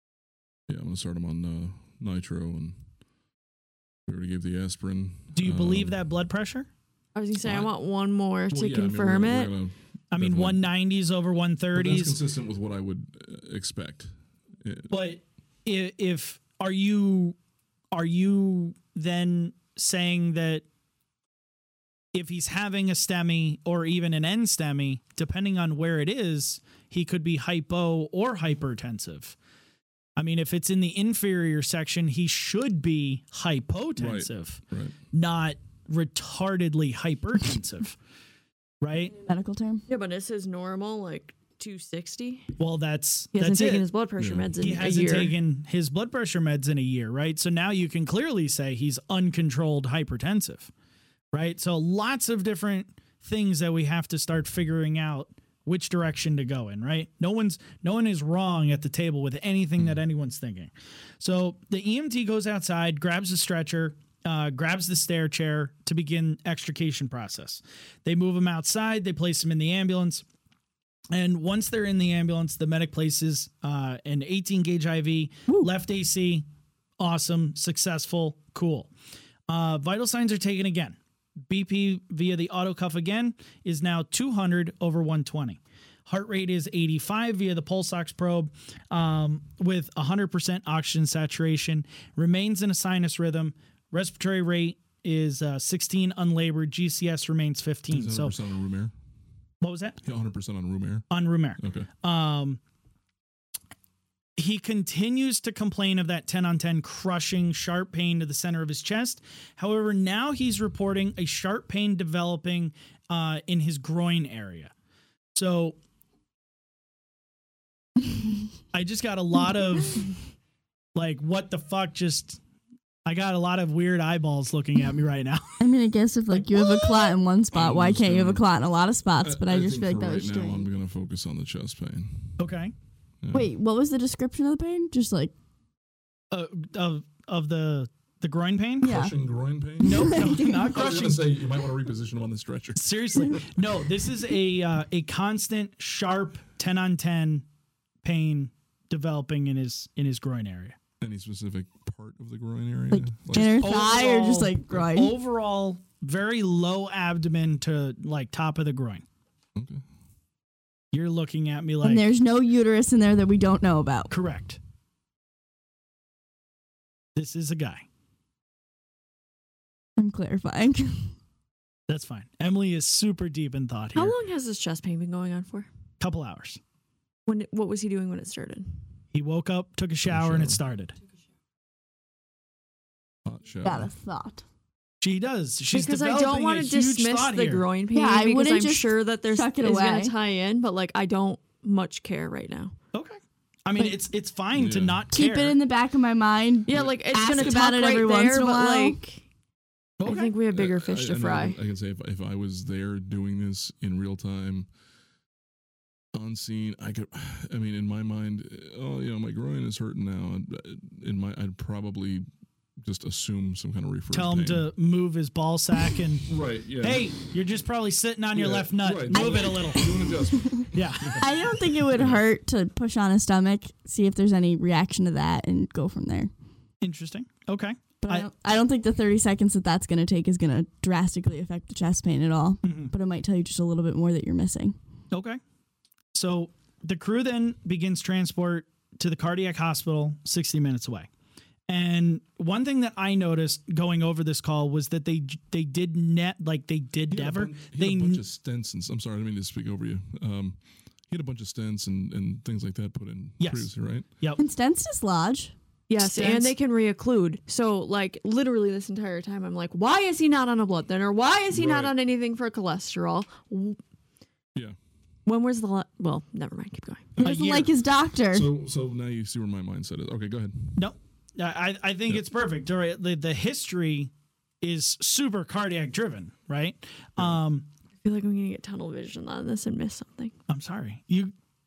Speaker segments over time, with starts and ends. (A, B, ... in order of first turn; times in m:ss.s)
0:00.7-0:02.8 A
0:04.1-0:06.0 A
0:05.3-0:06.7 B
0:07.1-0:09.5 C
0:07.4-0:07.7 A
0:08.5-0:10.6 A
0:10.1-0:12.2 B
0:11.7-0:14.9 A
0:14.9-0:17.4 B
0:17.9-0:20.6 B
0:22.1-0:29.4 B
0:30.2-0:34.6 B
0:34.0-0:35.0 A
0:35.1-0:38.0 B
0:38.8-0:39.1 B
0:39.2-0:39.8 D
0:39.9-0:42.5 C
0:42.6-0:43.8 B
0:43.3-0:45.4 C
0:44.2-0:44.5 A
0:44.6-0:50.7 B
0:51.3-1:10.2 B
1:11.1-1:16.4 B
1:17.0-1:18.9 B
1:19.5-1:38.4 B
1:37.9-1:38.9 A
1:39.6-1:40.0 B
1:40.0-1:41.0 A
1:41.1-1:42.6 B
1:41.6-1:41.9 A
1:44.4-1:54.7 B
1:55.3-1:55.8 B
1:58.7-2:00.1 B
2:00.9-2:02.4 B
2:03.0-2:05.6 B
2:05.6-2:10.7 D
2:06.4-2:07.1 B
2:07.5-2:08.4 A
2:09.2-2:12.4 A
2:12.4-2:12.7 B
2:13.2-2:13.5 A
2:13.3-2:15.3 D
2:16.3-2:18.9 B
2:18.8-2:19.1 D
2:18.8-2:23.5 A
2:19.8-2:21.3 B
2:19.8-2:20.7 D
2:22.8-2:27.4 B
2:28.0-2:30.8 B
2:31.0-2:33.7 A
2:32.9-2:35.1 D
2:33.4-2:39.0 B
2:39.5-2:39.8 A
2:40.9-2:42.1 B
2:41.8-2:44.1 D
2:44.1-2:44.6 B
2:47.2-2:47.8 B
2:50.0-2:51.1 D
2:51.9-2:54.2 B
2:53.9-2:55.7 C
2:56.0-2:56.6 B
2:57.2-2:58.7 C
2:59.1-3:00.9 B
3:00.0-3:00.6 A
3:03.2-3:03.9 A
3:03.6-3:04.4 D
3:05.0-3:07.6 B
3:05.7-3:12.7 C
3:07.9-3:10.1 D
3:12.9-3:15.6 B
3:14.5-3:15.0 A
3:15.1-3:19.0 D
3:16.6-3:19.2 C
3:20.0-3:20.3 B
3:20.0-3:21.6 C
3:20.5-3:24.7 A
3:26.1-3:32.2 A
3:32.8-3:34.7 A
3:34.1-3:36.3 B
3:36.3-3:37.1 A
3:36.8-3:39.9 B
3:38.3-3:41.4 A
3:39.1-3:46.3 D
3:40.7-3:41.2 B
3:41.9-3:42.2 A
3:46.8-3:48.3 B
3:48.0-3:54.7 D
3:52.6-3:52.9 B
3:55.1-3:55.4 B
3:56.1-4:01.1 B
4:01.7-4:08.2 B
4:07.1-4:14.0 A
4:13.4-4:14.4 B
4:14.4-4:15.5 D
4:15.9-4:23.8 C
4:16.0-4:16.5 B
4:21.5-4:21.9 A
4:25.2-4:27.1 C
4:27.1-4:27.6 A
4:27.2-4:27.7 B
4:27.2-4:28.5 D
4:28.3-4:30.8 A
4:30.8-4:34.1 B
4:34.6-4:37.7 B
4:38.0-4:40.3 C
4:40.5-4:41.3 B